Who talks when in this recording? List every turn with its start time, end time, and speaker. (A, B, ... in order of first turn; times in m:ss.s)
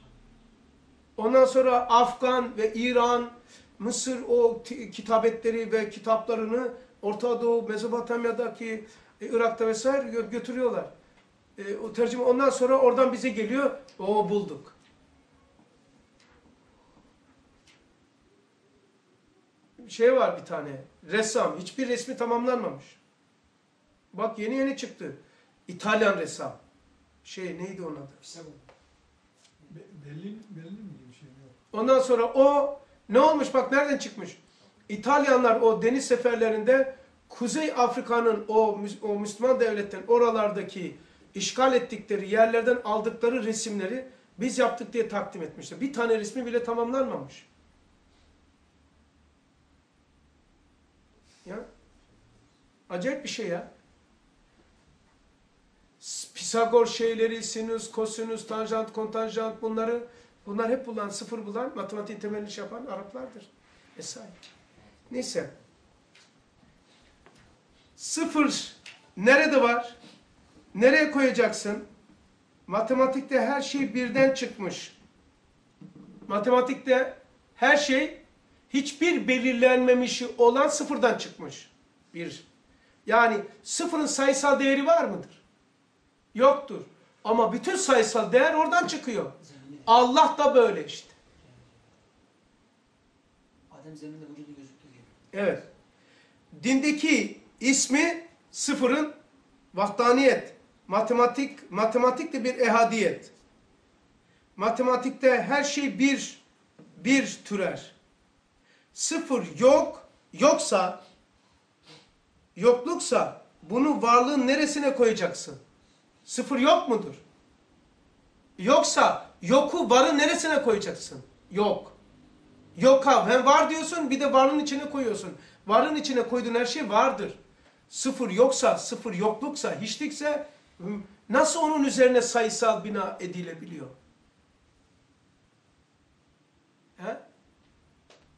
0:01.2-0:10.9 A
0:11.6-0:14.7 A
0:19.8-0:23.0 A
0:24.1-0:26.6 A
0:27.2-0:28.2 A
0:28.2-0:28.6 B
0:29.7-0:31.6 C
0:31.7-0:47.4 A
0:52.9-0:53.7 A
0:56.0-1:04.4 A
1:05.1-1:05.5 A
1:08.0-1:10.0 A
1:10.7-1:11.8 A
1:12.7-1:14.9 A
1:16.3-1:22.4 A
1:23.0-1:25.4 A
1:26.3-1:29.3 A
1:29.4-1:29.9 B
1:29.8-1:31.1 A
1:31.4-1:31.9 B
1:33.7-1:35.1 B
1:35.3-1:35.6 A
1:36.5-1:39.1 A
1:39.7-1:43.3 A
1:44.6-1:46.4 A
1:47.0-1:47.9 A
1:48.9-1:51.0 A
1:52.6-1:55.6 A
1:56.2-1:57.2 A
1:58.6-2:01.9 A
2:02.8-2:07.4 A
2:07.9-2:13.9 A